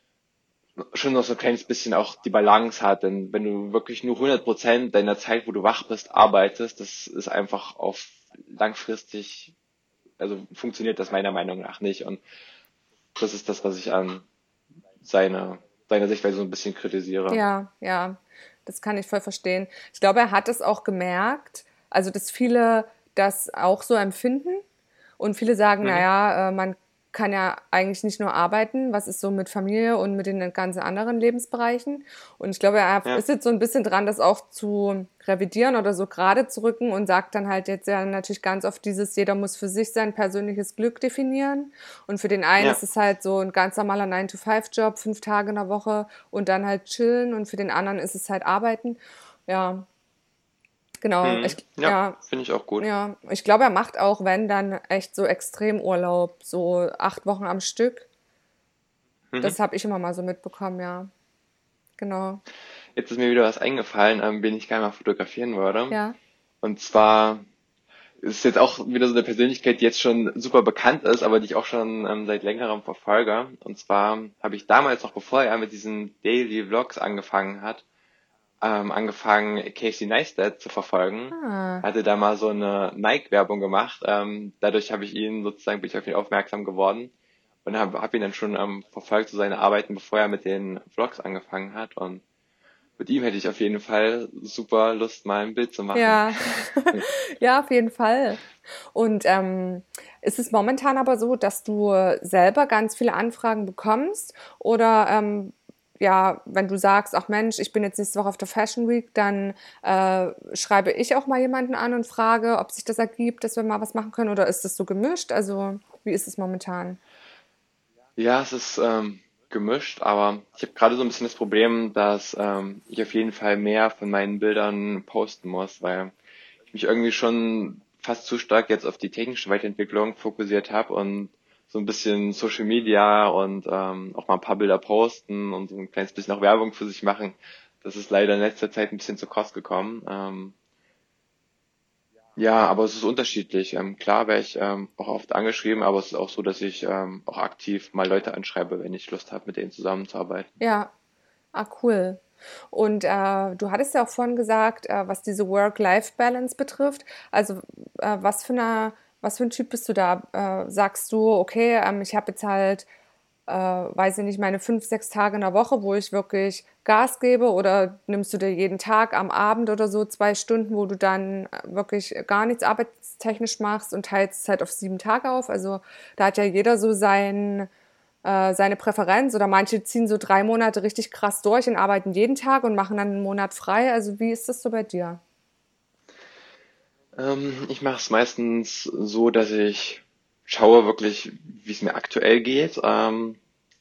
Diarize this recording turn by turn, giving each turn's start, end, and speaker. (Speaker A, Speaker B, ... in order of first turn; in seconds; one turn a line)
Speaker A: 0.8-9.5
Speaker A: 10.2-12.2
Speaker A: 13.2-14.2
Speaker A: 15.0-17.4
Speaker B: 17.3-24.6
Speaker B: 25.2-49.9
Speaker A: 25.8-26.1
Speaker B: 51.0-52.2
Speaker A: 51.2-52.9
Speaker B: 52.8-58.1
Speaker B: 59.4-61.1
Speaker B: 62.0-62.4
Speaker A: 63.0-66.0
Speaker B: 65.9-66.2
Speaker A: 66.6-67.4
Speaker A: 68.2-77.8
Speaker A: 78.6-87.1
Speaker B: 81.3-81.8
Speaker A: 87.7-92.2
Speaker A: 93.0-97.1
Speaker B: 95.9-117.0
Speaker A: 118.2-126.1
Speaker A: 126.7-140.6
Speaker A: 142.4-150.5
Speaker B: 150.6-150.9
Speaker B: 151.5-162.9
Speaker B: 163.5-177.7
Speaker B: 178.2-185.2
Speaker A: 187.2-193.4